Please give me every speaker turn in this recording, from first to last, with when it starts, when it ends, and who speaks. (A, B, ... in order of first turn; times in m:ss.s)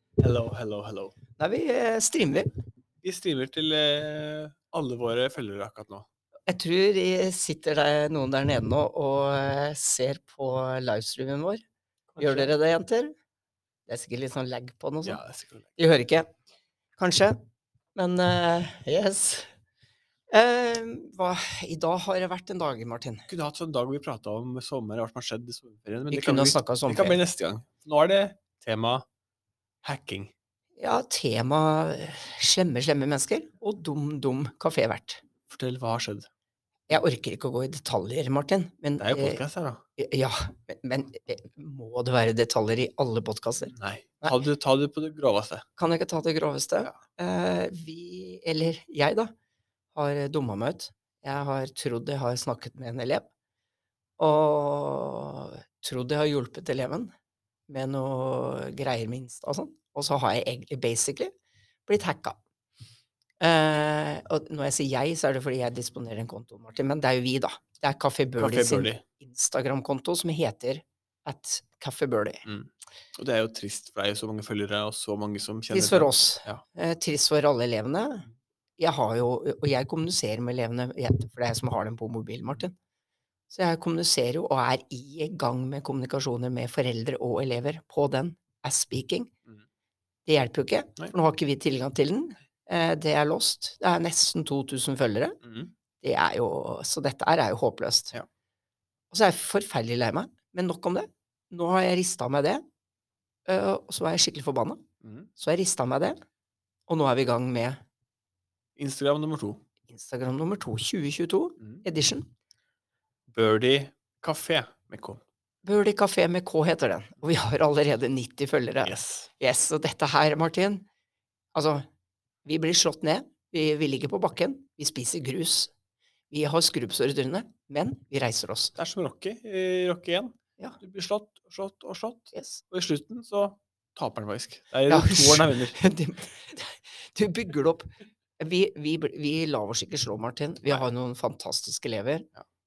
0:00.2-0:01.1 A
0:01.4-0:02.5 B
0:03.0-0:06.0 A
0:06.5-0:11.6 B
0:12.1-0:12.5 A
0:12.2-0:13.1 B
0:13.9-0:15.2 B
0:15.0-0:15.7 A
0:15.8-0:16.3 B
0:17.0-0:17.4 B
0:17.9-0:19.5 B
0:20.3-0:23.3 B
0:23.3-0:29.0 A
0:26.1-0:27.2 B
0:29.8-0:30.3 A
0:30.8-0:35.2 B
0:35.5-0:36.3 A
0:36.9-0:39.4 B
0:39.0-0:39.8 A
0:40.0-0:44.4 B
0:43.7-0:45.6 A
0:45.8-0:49.3 B
0:49.9-0:53.3 B
0:54.2-0:57.1 B
0:57.7-1:01.3 B
1:01.9-1:02.4 B
1:03.4-1:12.4 B
1:08.4-1:09.0 A
1:12.4-1:16.6 A
1:15.7-1:18.2 B
1:18.8-1:22.7 B
1:23.5-1:29.3 B
1:30.2-1:35.4 B
1:35.4-1:35.7 A
1:36.0-1:38.2 B
1:39.1-1:42.6 B
1:43.5-1:44.8 B
1:45.0-1:45.3 A
1:45.4-1:46.2 B
1:46.9-1:47.8 B
1:48.8-1:49.6 A
1:49.9-1:52.3 B
1:53.3-1:55.2 A
1:55.6-2:00.8 B
1:58.8-1:59.3 A
2:01.5-2:01.8 B
2:02.4-2:05.7 B
2:06.3-2:08.7 B
2:08.8-2:15.8 A
2:12.3-2:12.6 B
2:14.9-2:22.3 B